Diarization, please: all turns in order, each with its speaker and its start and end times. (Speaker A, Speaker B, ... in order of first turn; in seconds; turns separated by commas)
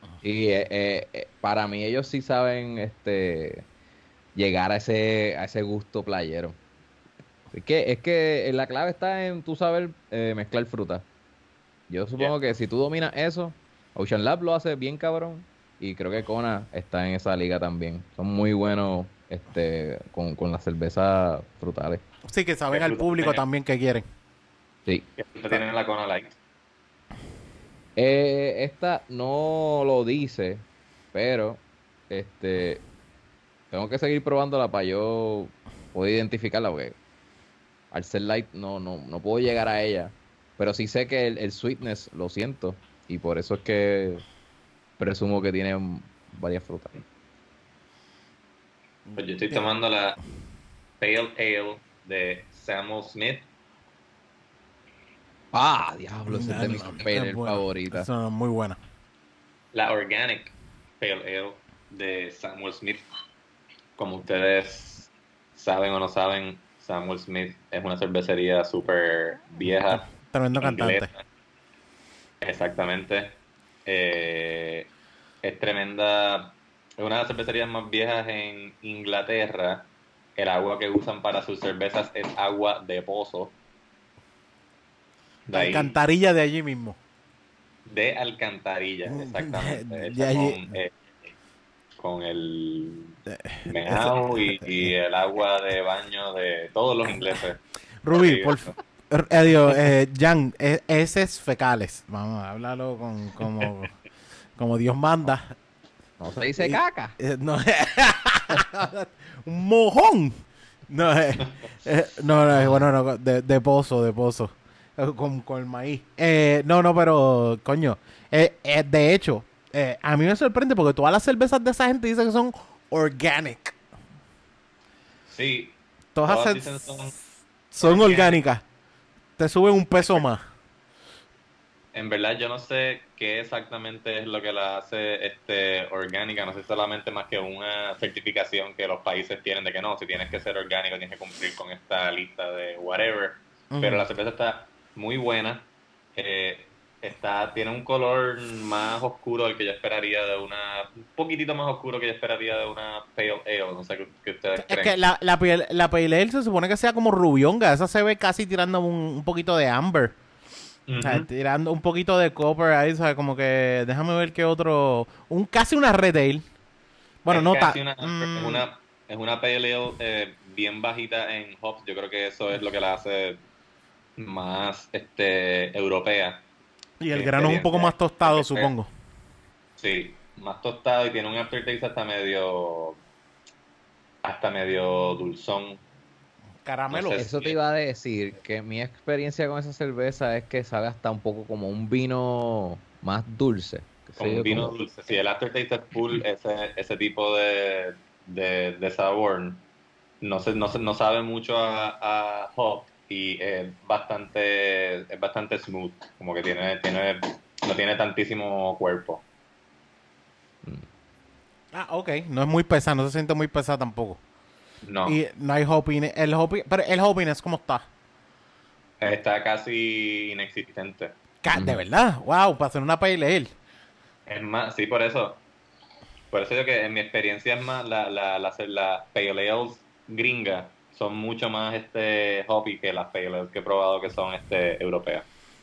Speaker A: 0.2-3.6, Speaker A: 4.3-6.6, Speaker A: 7.5-11.0, Speaker A: 11.9-22.0, Speaker B: 22.3-24.0, Speaker C: 22.7-23.4, Speaker A: 24.9-25.6, Speaker C: 25.2-26.4, Speaker A: 28.0-30.6, Speaker A: 31.1-32.8, Speaker A: 33.7-36.9, Speaker A: 37.9-44.2, Speaker A: 45.0-47.0, Speaker B: 49.1-49.7, Speaker C: 49.2-50.2, Speaker C: 51.0-53.5, Speaker A: 55.5-58.1, Speaker B: 56.3-58.8, Speaker C: 59.7-63.0, Speaker C: 64.0-71.2, Speaker B: 70.2-71.1, Speaker C: 72.4-74.9, Speaker C: 75.4-83.5, Speaker C: 85.5-85.9, Speaker B: 85.5-87.0, Speaker C: 87.9-91.3, Speaker B: 89.1-90.7, Speaker C: 92.0-98.7, Speaker B: 93.3-94.9, Speaker B: 98.0-103.9, Speaker B: 104.6-105.5, Speaker A: 106.2-107.2, Speaker B: 106.6-110.4, Speaker B: 110.9-123.7, Speaker A: 112.5-112.8, Speaker C: 125.2-127.1, Speaker B: 126.1-126.9, Speaker B: 127.7-128.6, Speaker C: 127.8-128.4, Speaker B: 129.4-130.4, Speaker C: 131.9-154.9, Speaker B: 143.7-144.1, Speaker B: 154.6-160.1, Speaker C: 160.9-161.3, Speaker B: 161.0-166.4, Speaker B: 167.2-168.6, Speaker C: 167.3-173.4, Speaker C: 174.2-176.4, Speaker B: 177.0-178.9, Speaker C: 177.1-178.7, Speaker C: 179.8-183.0, Speaker C: 184.2-185.8, Speaker B: 186.6-187.2, Speaker C: 186.9-187.6, Speaker A: 187.2-194.7, Speaker C: 194.2-199.6, Speaker C: 200.2-209.2, Speaker B: 211.7-214.2, Speaker C: 214.8-215.2, Speaker B: 215.1-217.8, Speaker C: 219.0-221.1, Speaker B: 221.4-223.5, Speaker A: 221.5-221.8, Speaker C: 224.2-225.4, Speaker C: 226.3-235.2